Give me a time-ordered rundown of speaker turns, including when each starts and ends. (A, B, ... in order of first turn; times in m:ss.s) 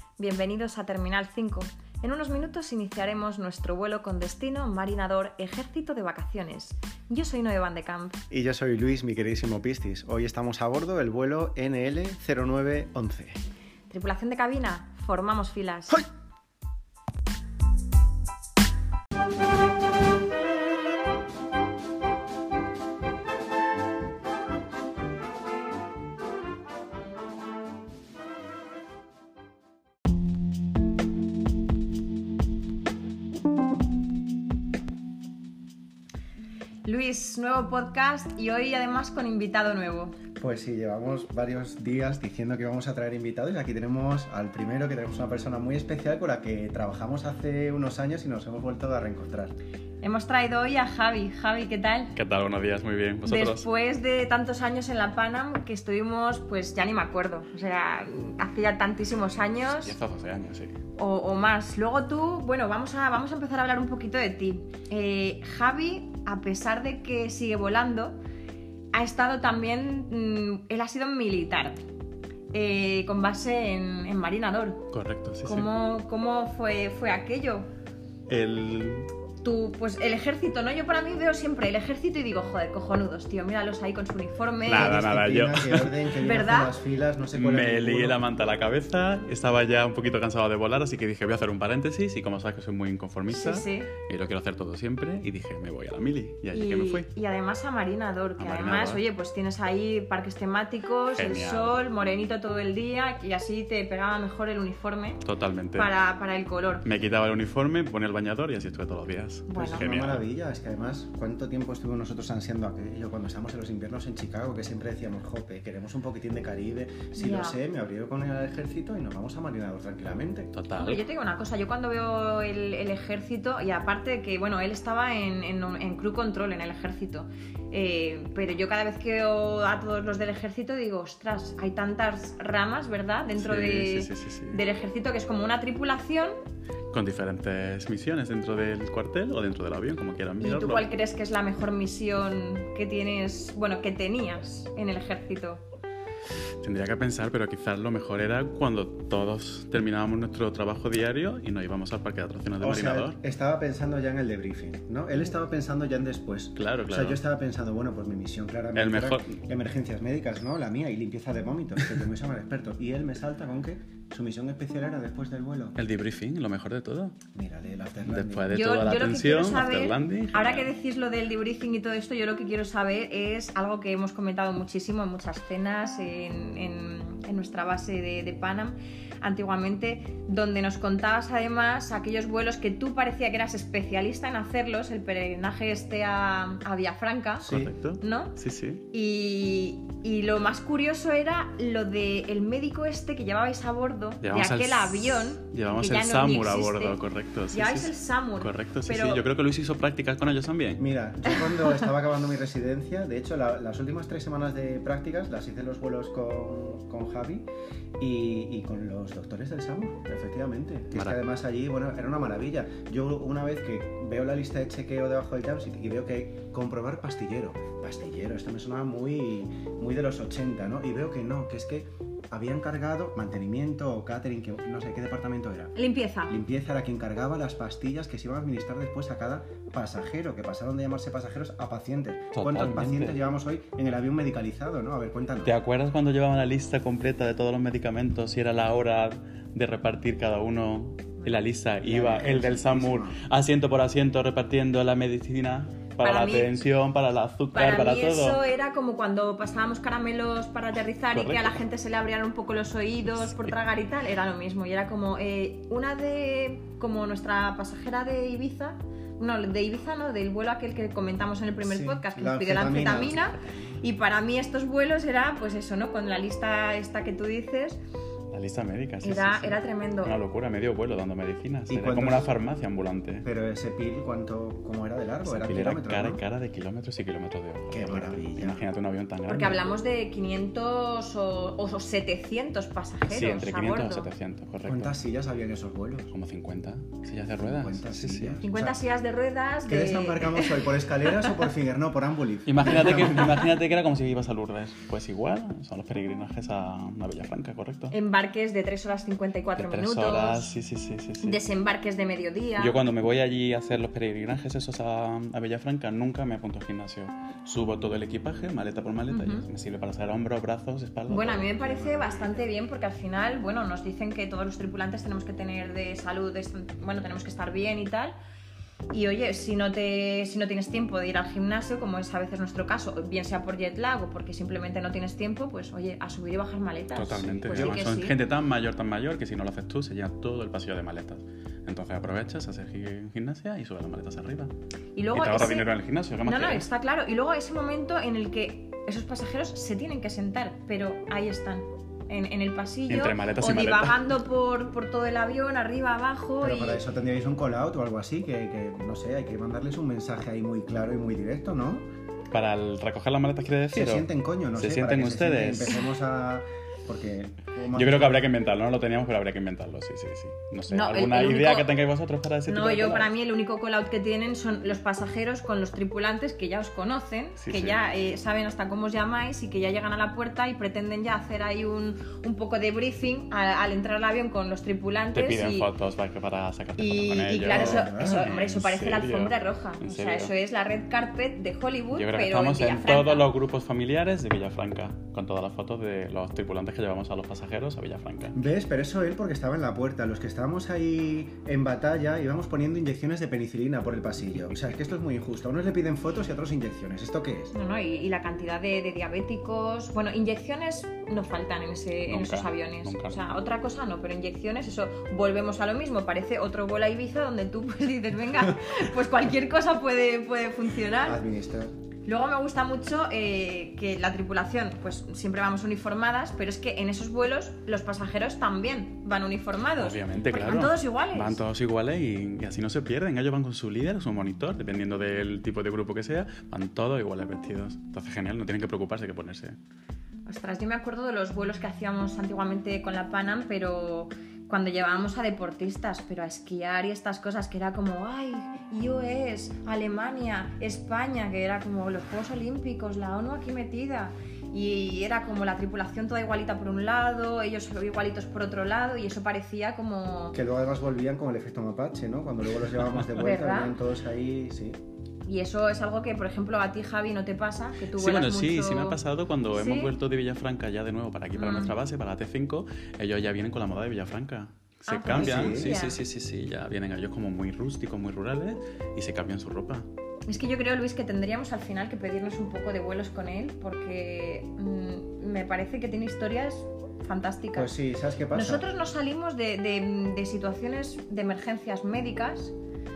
0:00.2-0:08.2 A
0:08.3-0:13.4 B
0:13.9-0:16.1 A
0:36.9-0:40.2 A
0:40.4-0:49.6 B
0:50.0-0:52.2 A
0:52.2-0:53.7 C
0:53.3-1:00.0 A
0:59.7-1:00.8 C
1:01.0-1:08.2 A
1:08.9-1:11.8 A
1:12.5-1:14.9 A
1:14.9-1:15.7 C
1:15.4-1:17.7 A
1:18.3-1:19.1 C
1:19.4-1:25.0 A
1:24.7-1:26.0 C
1:24.7-1:28.2 B
1:26.2-1:26.7 A
1:27.3-1:37.1 C
1:33.3-1:33.9 A
1:36.5-1:45.2 A
1:38.4-1:39.0 C
1:41.2-1:41.8 C
1:45.2-1:45.9 C
1:45.8-1:46.9 A
1:46.8-1:50.3 C
1:49.5-1:49.9 A
1:49.6-2:00.5 B
1:57.1-1:57.6 A
2:00.5-2:01.0 C
2:00.8-2:16.4 A
2:13.4-2:14.6 C
2:16.9-2:20.9 C
2:20.4-2:25.6 A
2:26.6-2:33.2 C
2:32.6-2:45.8 B
2:36.6-2:37.2 C
2:38.8-2:39.3 C
2:45.8-2:47.2 C
2:47.3-2:48.5 B
2:48.1-2:50.7 C
2:48.5-3:08.4 A
3:07.4-3:08.8 C
3:07.4-3:07.7 B
3:08.9-3:17.0 A
3:14.2-3:20.8 C
3:17.5-3:19.2 A
3:20.8-3:27.5 B
3:28.0-3:45.7 B
3:30.9-3:31.2 C
3:45.8-3:46.4 A
3:46.3-3:55.6 B
3:52.3-3:53.2 C
3:55.4-4:08.4 C
4:01.8-4:03.2 B
4:06.0-4:06.5 A
4:07.5-4:27.8 A
4:11.1-4:11.6 C
4:13.2-4:13.5 C
4:21.6-4:23.7 B
4:28.3-4:33.3 C
4:29.0-4:30.2 A
4:31.7-4:32.3 B
4:33.2-4:36.2 B
4:35.2-4:39.6 C
4:37.7-4:38.6 B
4:39.3-4:44.1 A
4:43.1-4:45.0 C
4:44.7-4:46.1 B
4:46.1-4:48.4 C
4:47.4-4:48.8 B
4:48.4-4:50.7 A
4:49.7-4:53.4 B
4:52.5-4:58.0 C
4:57.9-5:00.5 A
4:59.6-5:01.4 C
5:01.2-5:02.8 A
5:02.6-5:11.5 C
5:09.1-5:09.5 A
5:11.1-5:18.2 A
5:11.3-5:12.5 B
5:18.9-5:28.2 A
5:27.0-5:34.5 C
5:27.1-5:27.8 B
5:35.0-5:35.7 A
5:35.1-5:36.7 C
5:36.2-5:46.8 A
5:42.9-5:44.1 C
5:46.4-5:51.9 B
5:52.3-5:55.8 C
5:53.7-5:58.3 B
5:57.7-6:03.1 C
6:00.7-6:01.7 A
6:02.5-6:15.7 A
6:07.4-6:07.8 C
6:15.1-6:20.3 C
6:16.8-6:23.3 A
6:17.5-6:18.4 B
6:21.9-6:28.4 C
6:28.3-6:37.5 B
6:37.5-6:51.2 A
6:42.1-6:43.2 C
6:51.0-6:51.7 B
6:52.1-7:01.4 A
6:59.8-7:09.6 C
7:10.3-7:30.4 A
7:30.3-7:34.8 B
7:33.2-7:33.8 A
7:35.3-7:39.0 A
7:38.0-7:49.9 C
7:39.5-7:39.9 A
7:41.4-7:41.8 A
7:44.9-7:46.0 A
7:45.1-7:45.7 B
7:50.3-7:57.7 A
7:57.6-7:58.7 B
7:58.3-8:02.6 A